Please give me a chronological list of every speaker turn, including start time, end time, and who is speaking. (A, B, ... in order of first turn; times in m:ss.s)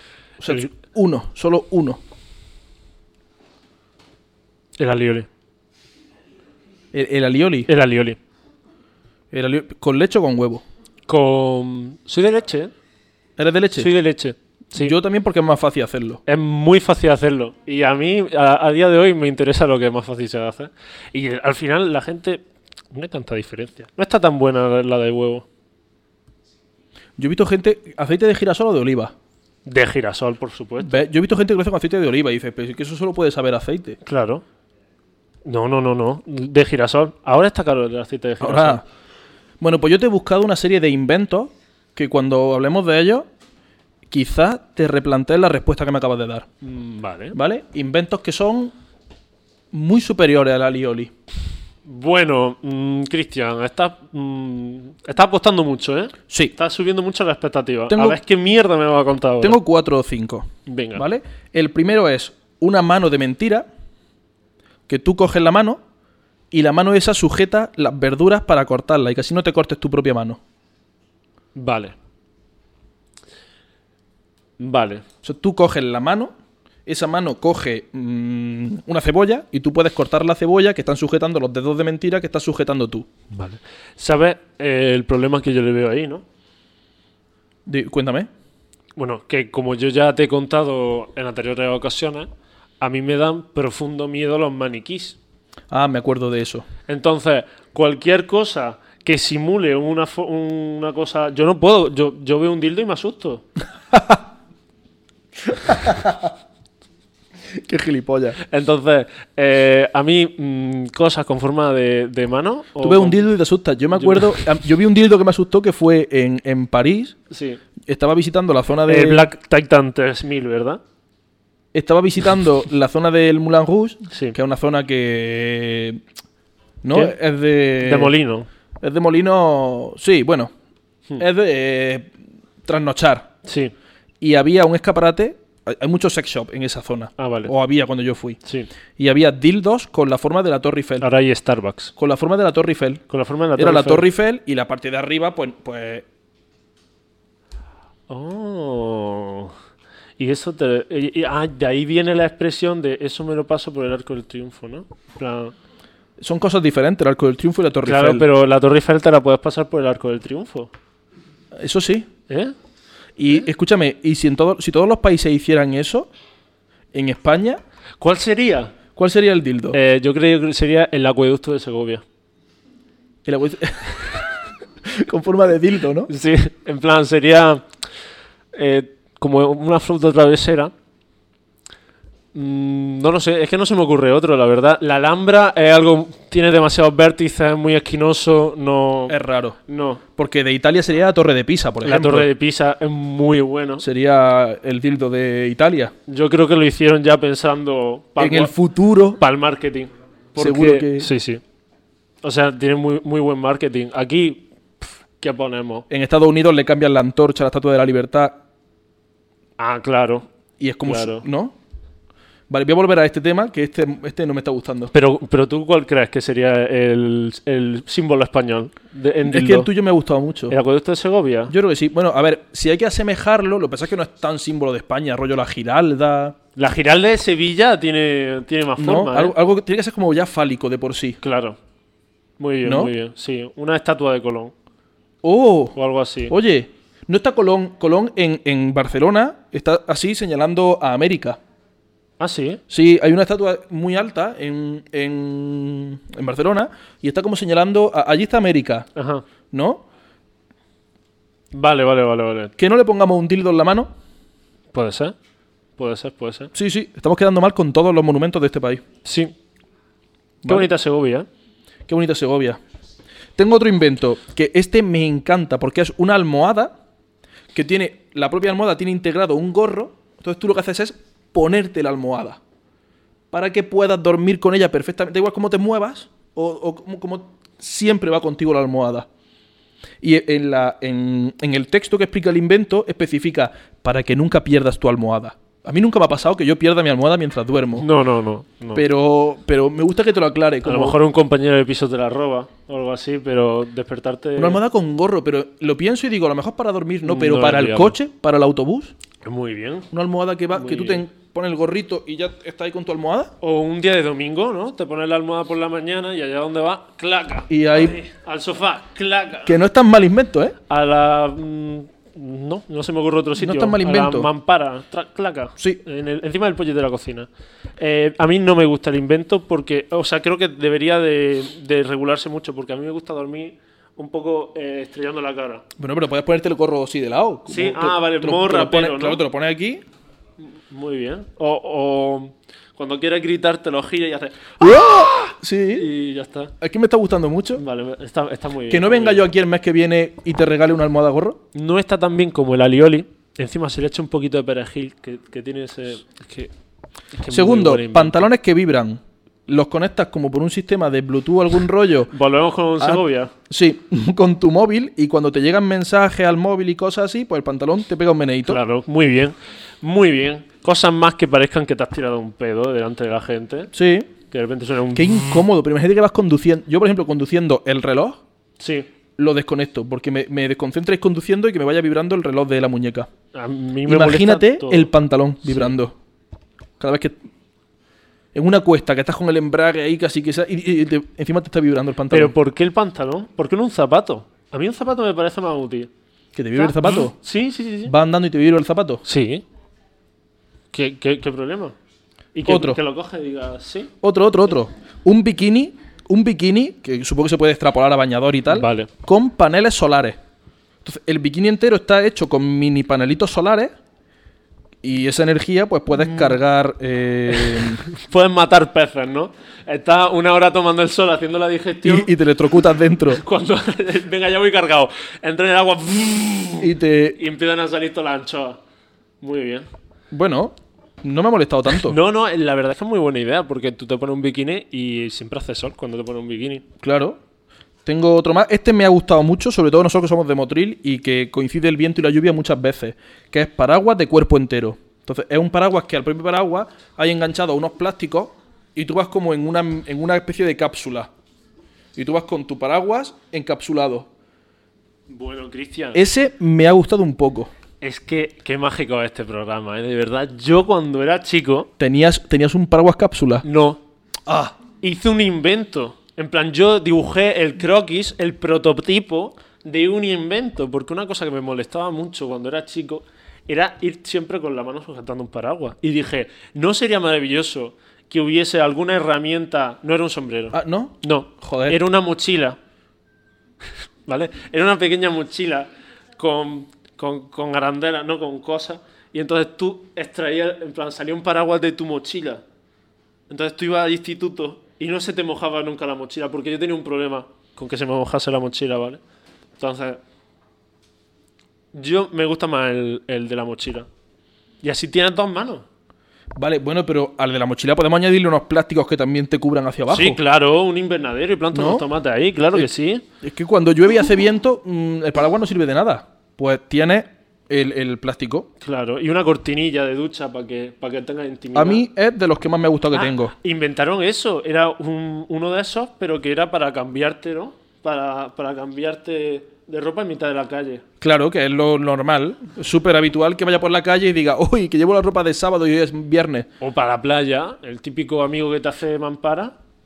0:00.4-0:02.0 A
0:04.8-0:05.3 B
0:06.9-0:07.7 A
0:07.7-0:08.2 B
0:09.3-0:10.6 A
0:11.1-0:12.7 B
0:13.4-0:13.9 A
0:13.8-0:14.9 B
0:14.8-0:16.2 A
0:16.3-0:25.4 B
0:27.2-0:29.1 A
0:29.6-0:31.0 B
0:30.8-0:34.0 A
0:34.0-0:34.4 B
0:35.4-0:38.8 B
0:38.4-0:38.8 A
0:39.6-0:43.3 A
0:44.1-0:46.5 A
0:46.6-0:47.4 B
0:47.3-0:48.7 A
0:49.7-0:51.1 A
0:51.8-0:59.6 B
0:57.9-0:58.2 A
0:59.4-1:03.7 A
1:00.7-1:01.0 B
1:04.9-1:05.8 A
1:06.5-1:10.4 A
1:11.6-1:12.0 B
1:14.6-1:15.0 B
1:15.2-1:16.3 A
1:16.8-1:23.1 A
1:23.3-1:26.2 B
1:27.7-1:28.3 A
1:29.0-1:32.3 B
1:32.8-1:35.2 B
1:35.7-1:36.7 A
1:36.8-1:43.4 B
1:43.9-1:44.2 A
1:45.5-1:46.3 A
1:47.5-1:48.4 A
1:48.4-1:53.2 B
1:52.8-1:57.2 A
1:53.9-1:54.5 B
1:57.3-1:57.6 B
1:57.9-1:59.2 A
1:58.8-2:00.8 B
2:01.7-2:06.0 A
2:04.1-2:04.4 B
2:06.8-2:08.1 A
2:07.8-2:08.5 B
2:08.8-2:10.5 A
2:11.2-2:12.1 A
2:12.6-2:13.3 A
2:13.4-2:13.7 B
2:14.2-2:18.4 A
2:17.2-2:17.5 B
2:18.4-2:18.7 B
2:19.0-2:21.1 A
2:21.0-2:21.9 B
2:22.0-2:23.0 A
2:23.1-2:24.1 B
2:23.6-2:26.0 A
2:28.1-2:29.5 B
2:30.2-2:35.6 B
2:36.2-2:38.2 A
2:37.8-2:40.7 B
2:41.6-2:42.1 A
2:42.3-2:42.6 B
2:43.2-2:46.1 A
2:46.9-2:47.6 A
2:48.0-2:48.7 B
2:49.0-2:49.8 A
2:49.7-2:52.0 B
2:53.2-2:54.2 A
2:54.8-2:56.1 A
2:56.1-2:57.7 B
2:58.5-3:00.7 B
3:02.3-3:10.0 B
3:09.1-3:09.6 A
3:10.2-3:12.3 A
3:11.8-3:13.8 B
3:13.8-3:15.9 A
3:16.1-3:18.5 B
3:18.2-3:19.2 A
3:19.2-3:21.4 B
3:20.4-3:21.1 A
3:22.2-3:25.9 B
3:25.9-3:28.4 A
3:29.6-3:30.3 B
3:30.6-3:31.6 A
3:30.8-3:31.2 B
3:32.5-3:34.9 A
3:34.9-3:39.7 B
3:39.2-3:40.6 A
3:40.5-3:41.5 B
3:41.5-3:46.4 A
3:46.6-3:49.4 B
3:48.8-3:51.2 A
3:51.2-3:51.6 B
3:52.4-3:54.5 B
3:52.6-3:52.9 A
3:55.2-3:55.8 A
3:55.8-3:56.3 B
3:56.3-4:01.4 A
4:02.2-4:02.6 B
4:02.7-4:08.9 A
4:08.9-4:09.2 B
4:09.5-4:09.8 A
4:11.5-4:12.5 B
4:12.6-4:13.9 A
4:14.7-4:15.2 B
4:15.8-4:16.5 B
4:16.5-4:18.8 A
4:19.0-4:19.3 B
4:20.4-4:20.7 A
4:20.4-4:21.3 B
4:21.9-4:22.6 A
4:23.4-4:26.7 A
4:27.5-4:32.4 A
4:33.3-4:39.1 A
4:40.0-4:47.9 A
4:47.8-4:48.8 B
4:48.7-4:51.0 A
4:50.6-4:54.6 B
4:54.4-4:58.9 A
4:57.0-4:58.0 B
4:59.2-4:59.9 B
4:59.9-5:03.3 A
5:00.5-5:01.0 B
5:03.4-5:09.6 B
5:07.5-5:08.0 A
5:09.4-5:10.6 A
5:10.7-5:25.6 B
5:13.4-5:14.3 A
5:25.8-5:29.8 A
5:27.5-5:29.2 B
5:30.4-5:36.5 B
5:34.6-5:35.9 A
5:36.6-5:37.6 A
5:37.6-5:39.3 B
5:38.7-5:41.4 A
5:41.5-5:46.5 B
5:47.1-5:48.3 B
5:47.3-5:52.1 A
5:52.1-5:53.3 B
5:52.8-5:58.6 A
5:58.5-6:05.5 B
6:03.7-6:04.1 A
6:04.9-6:08.2 A
6:08.6-6:08.9 B
6:09.2-6:13.1 A
6:13.3-6:14.9 B
6:13.8-6:15.9 A
6:15.4-6:15.8 B
6:16.8-6:17.2 A
6:18.3-6:22.3 A
6:22.1-6:25.9 B
6:26.4-6:27.2 A
6:26.6-6:27.9 B
6:27.8-6:29.0 A
6:29.0-6:29.4 B
6:30.7-6:31.8 B
6:32.3-6:33.9 B
6:32.4-6:32.8 A
6:34.0-6:40.2 A
6:38.5-6:38.9 B
6:40.8-6:43.7 A
6:44.8-6:47.8 A
6:46.0-6:46.4 B
6:47.3-6:52.1 B
6:51.8-6:53.2 A
6:53.1-6:58.6 B
6:56.6-6:57.2 A
6:59.2-6:59.7 B
7:00.1-7:02.0 A
7:01.7-7:06.6 B
7:06.8-7:07.2 A
7:07.8-7:21.1 A
7:22.0-7:24.1 A
7:25.1-7:26.0 B
7:25.9-7:27.5 A
7:27.8-7:31.7 B
7:31.8-7:33.4 A
7:33.4-7:33.8 B
7:34.3-7:34.6 A
7:34.7-7:52.6 B
7:50.5-7:51.8 A
7:54.1-8:02.4 B
8:03.3-8:09.0 B
8:09.6-8:10.0 B
8:11.7-8:13.9 B
8:14.6-8:15.7 B
8:16.4-8:20.2 A
8:19.9-8:23.0 B
8:21.5-8:21.8 A
8:23.2-8:28.5 A
8:28.6-8:31.8 B
8:31.5-8:33.3 A
8:32.9-8:40.8 B
8:41.0-8:46.5 A
8:46.6-8:49.5 B